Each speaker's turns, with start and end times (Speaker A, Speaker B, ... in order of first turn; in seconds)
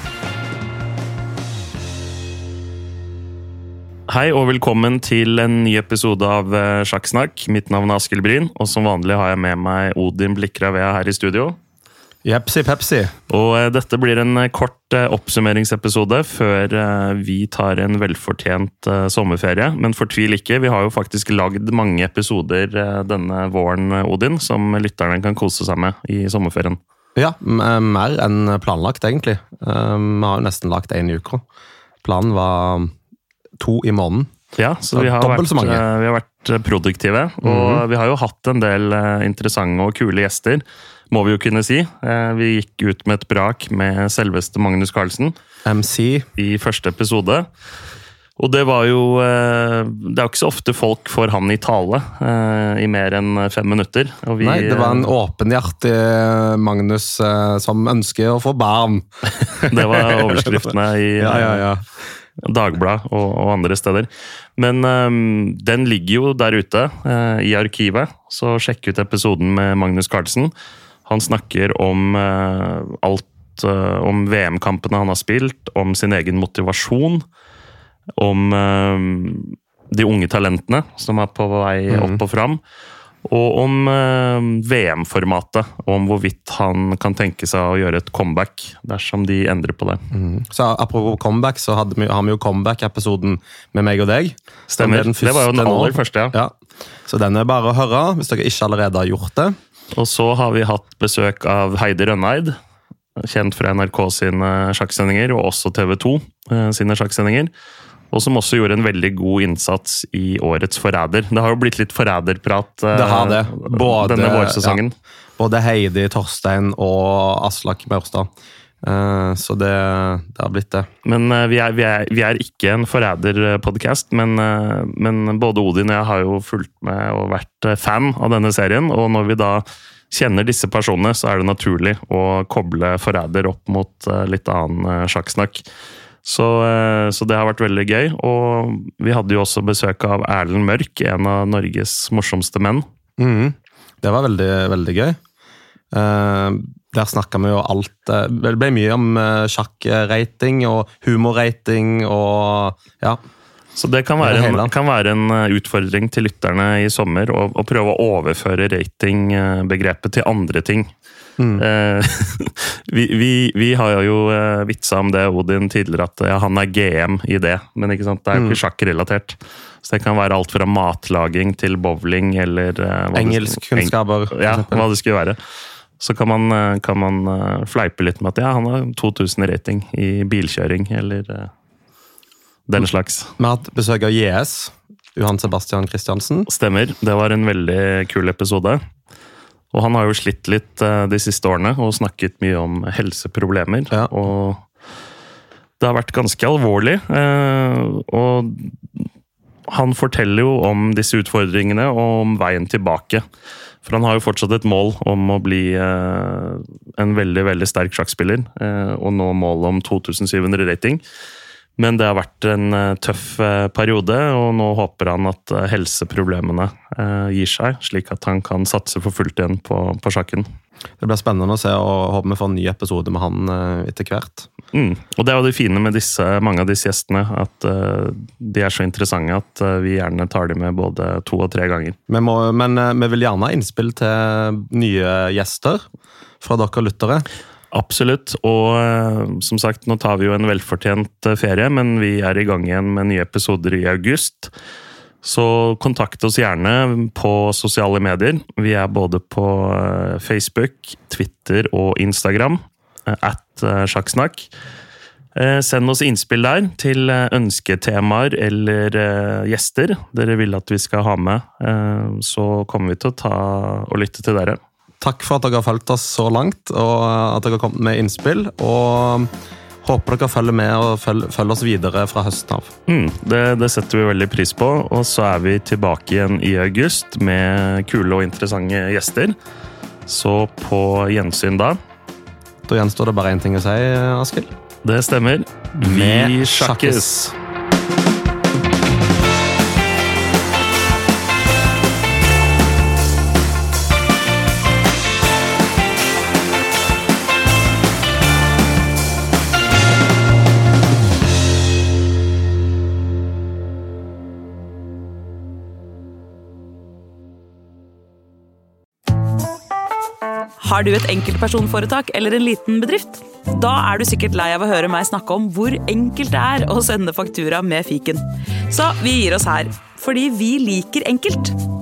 Speaker A: 4.1-11.6, 13.3-26.8, 34.5-45.3, 46.4-47.5, 48.4-55.1, 59.7-61.6, 62.4-70.5, 71.0-77.2, 78.2-82.6, 83.2-90.0, 94.7-96.4, 99.9-102.5, 103.2-107.5, 108.1-114.9, 121.0-135.6, 136.2-142.8, 153.8-160.9, 161.6-175.4, 176.0-181.5, 182.7-183.3, 186.5-188.8, 189.7-194.6, 195.8-199.0, 199.7-203.2, 203.8-211.0, 211.8-220.4, 224.7-232.0, 237.7-244.5, 245.2-254.5, 255.3-264.6, 272.9-279.3, 280.1-281.8, 284.8-287.3
Speaker B: 12.2-13.1, 27.1-31.4, 32.0-32.9, 33.6-34.3, 34.9-35.8, 37.4-37.8, 45.6-46.2, 54.4-60.7, 61.2-61.8, 81.9-82.2, 90.1-96.5, 97.1-99.5, 112.9-114.8, 115.4-118.3, 118.8-120.9, 143.2-145.2, 145.9-153.2, 154.2-154.7, 161.4-161.6, 168.3-168.6, 173.1-174.9, 183.4-186.5, 221.0-224.5, 232.1-235.8, 236.4-237.2, 265.0-269.3, 269.8-272.7, 282.7-284.5, 285.8-287.1
Speaker C: 310.6-321.6